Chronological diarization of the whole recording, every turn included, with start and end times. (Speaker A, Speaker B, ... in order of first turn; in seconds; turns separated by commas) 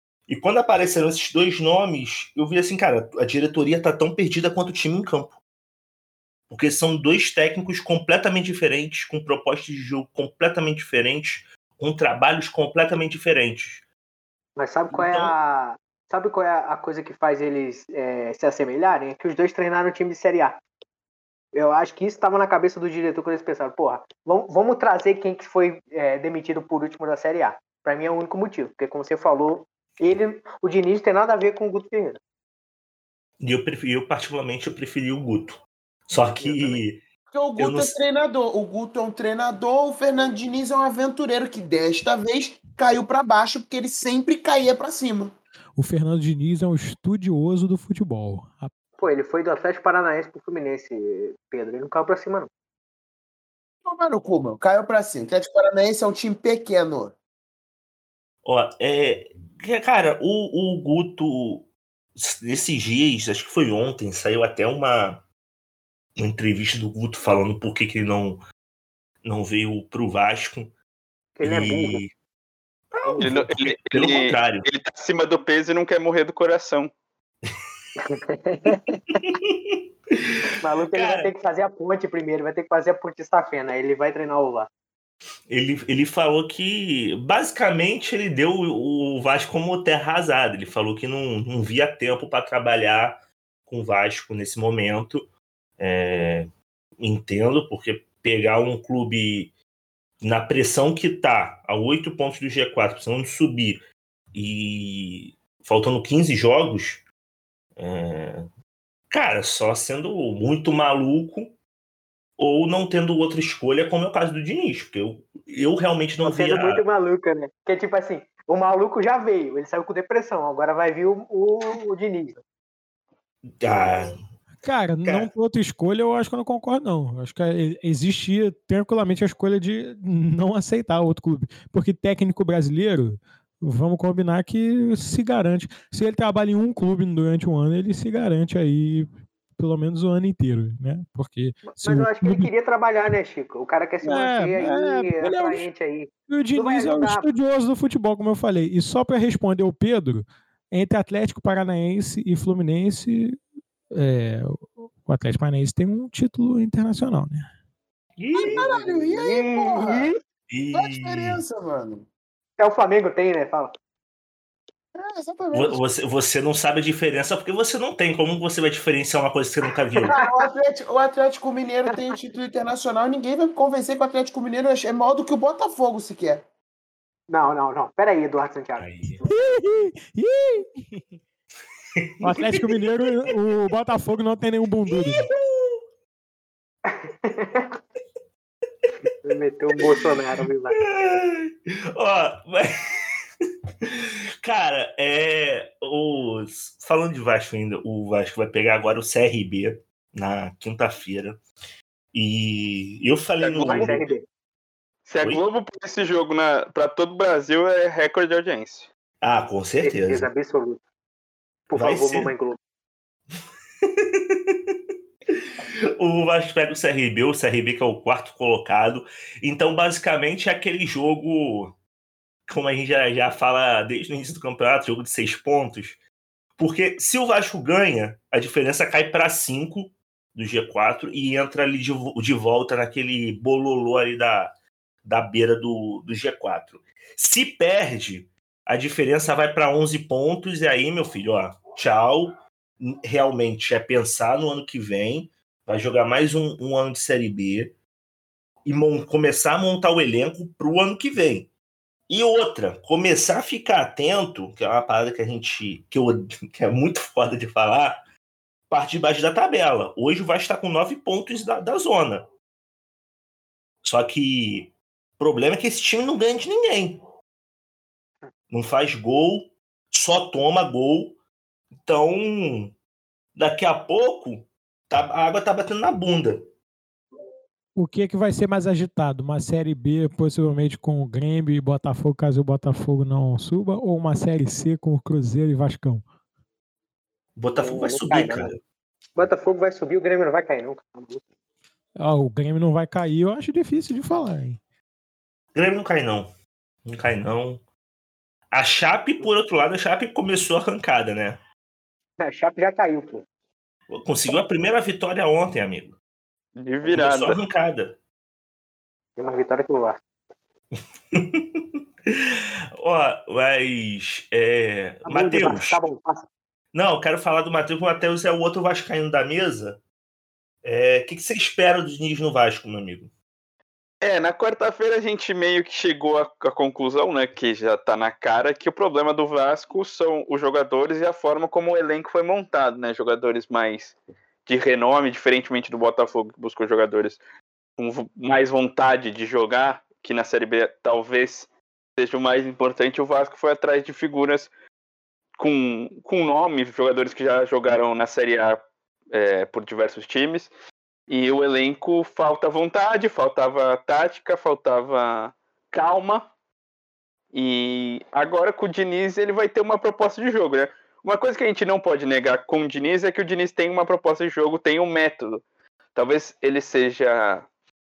Speaker A: 0.3-5.4, Speaker A: 6.5-13.8, Speaker B: 14.6-20.6, Speaker A: 14.9-15.3, Speaker B: 21.5-32.2, Speaker A: 33.4-37.0, Speaker B: 36.4-36.8, Speaker C: 37.3-45.3, Speaker A: 37.6-37.9, Speaker D: 45.8-48.7, Speaker B: 49.0-52.5, Speaker C: 53.8-57.1, Speaker A: 58.4-65.2, Speaker A: 66.2-68.4, Speaker A: 69.2-70.7, Speaker B: 71.3-72.0, Speaker A: 71.4-72.1, Speaker A: 72.9-74.7, Speaker B: 73.0-73.3, Speaker E: 73.2-76.9, Speaker B: 78.0-79.2, Speaker A: 79.1-80.3, Speaker B: 80.6-84.7, Speaker A: 80.9-81.3, Speaker A: 85.5-96.5, Speaker A: 97.0-99.5, Speaker A: 100.2-103.8, Speaker A: 104.3-107.0, Speaker A: 107.8-108.5, Speaker A: 109.1-111.5, Speaker A: 112.4-116.8, Speaker B: 116.2-122.4, Speaker A: 123.6-124.1, Speaker D: 124.6-142.5, Speaker A: 125.0-125.3, Speaker B: 141.7-147.3, Speaker D: 144.0-145.7, Speaker D: 146.3-153.4, Speaker D: 153.9-157.5, Speaker A: 158.2-158.7, Speaker C: 158.3-160.1, Speaker B: 158.6-160.2, Speaker A: 160.5-161.4, Speaker C: 160.7-162.1, Speaker B: 162.6-163.7, Speaker C: 164.9-165.8, Speaker A: 165.5-170.2, Speaker C: 170.0-176.4, Speaker B: 170.0-170.5, Speaker B: 177.3-179.6, Speaker A: 178.8-179.2, Speaker D: 179.2-181.2, Speaker A: 182.0-183.3, Speaker D: 182.2-185.3, Speaker A: 184.9-185.8, Speaker B: 186.8-187.8, Speaker B: 189.2-190.8, Speaker A: 190.8-192.7, Speaker A: 194.4-201.4, Speaker A: 202.1-204.1, Speaker B: 203.4-204.2, Speaker E: 203.6-204.0, Speaker E: 205.0-208.9, Speaker A: 209.2-210.3, Speaker B: 209.8-210.8, Speaker B: 211.7-212.6, Speaker A: 211.7-212.3, Speaker A: 216.0-221.8, Speaker A: 222.5-226.0, Speaker A: 226.6-247.7, Speaker A: 248.6-251.5, Speaker A: 252.1-258.0, Speaker A: 258.7-262.3, Speaker A: 263.8-267.0, Speaker A: 268.5-271.2, Speaker A: 271.8-272.7, Speaker A: 273.3-276.5, Speaker D: 277.8-286.0, Speaker A: 287.4-288.6, Speaker B: 287.6-288.5, Speaker B: 289.1-291.2, Speaker D: 292.0-294.6, Speaker A: 295.5-296.3, Speaker A: 296.8-297.6, Speaker A: 298.5-301.4, Speaker B: 302.2-303.2, Speaker A: 303.9-306.0, Speaker E: 306.6-307.4, Speaker A: 306.8-308.0, Speaker B: 309.2-310.0, Speaker A: 311.1-315.8, Speaker B: 315.1-316.3, Speaker A: 316.7-319.8, Speaker A: 320.6-323.1, Speaker E: 324.0-337.2, Speaker E: 337.8-344.5, Speaker E: 345.4-348.6, Speaker E: 349.1-350.5, Speaker E: 351.1-356.3, Speaker E: 357.3-365.4, Speaker E: 365.9-367.5